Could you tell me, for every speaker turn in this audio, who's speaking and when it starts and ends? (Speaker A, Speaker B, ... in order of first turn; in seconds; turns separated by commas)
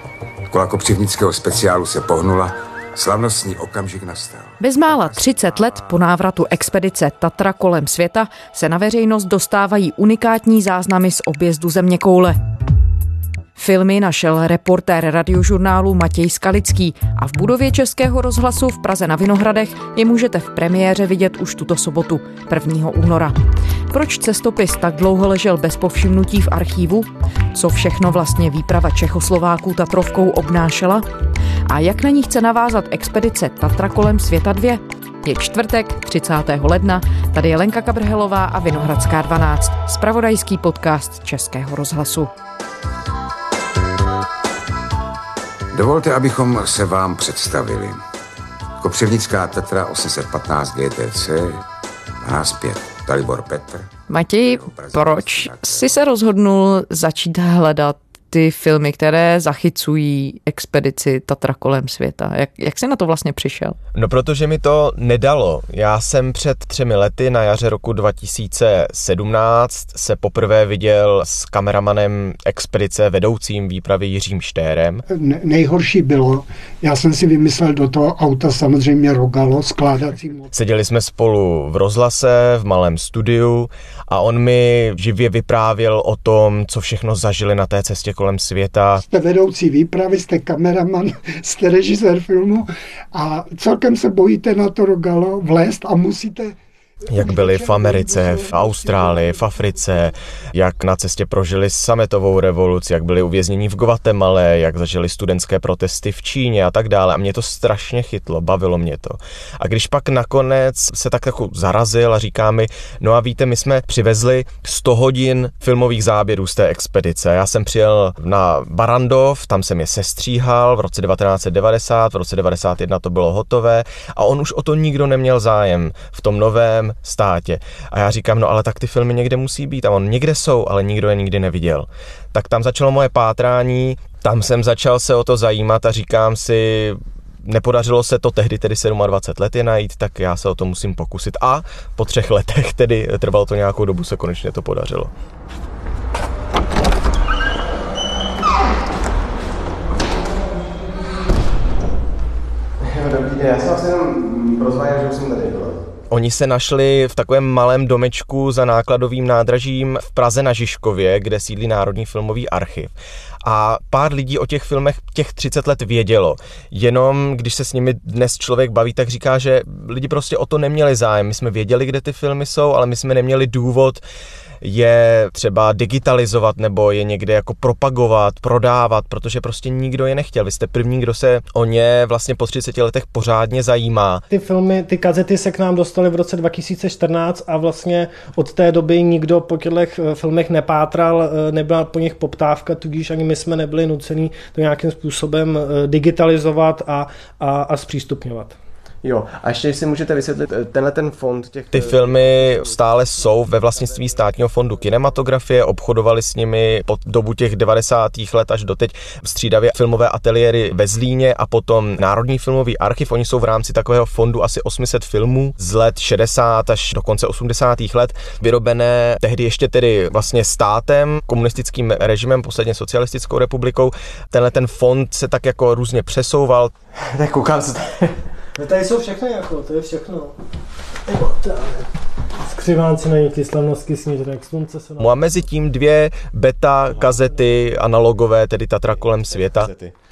Speaker A: 0.5-6.0, Speaker B: 4.6-12.4, Speaker B: 13.6-23.4, Speaker B: 23.9-31.1, Speaker B: 31.7-42.3, Speaker A: 45.7-48.0, Speaker A: 48.8-51.6, Speaker A: 52.2-56.0, Speaker B: 54.1-63.8, Speaker C: 63.9-75.0, Speaker D: 75.1-80.5, Speaker C: 80.5-89.0, Speaker D: 89.0-96.5, Speaker C: 97.1-145.1, Speaker D: 97.1-99.9, Speaker E: 152.8-155.8, Speaker C: 156.1-162.9, Speaker C: 163.4-174.0, Speaker C: 174.6-184.2, Speaker F: 184.3-198.6, Speaker E: 199.0-202.8, Speaker C: 201.7-228.1, Speaker E: 203.8-204.1, Speaker F: 228.6-230.3, Speaker F: 231.1-231.9, Speaker F: 232.4-235.2, Speaker C: 235.0-239.7, Speaker E: 239.3-239.9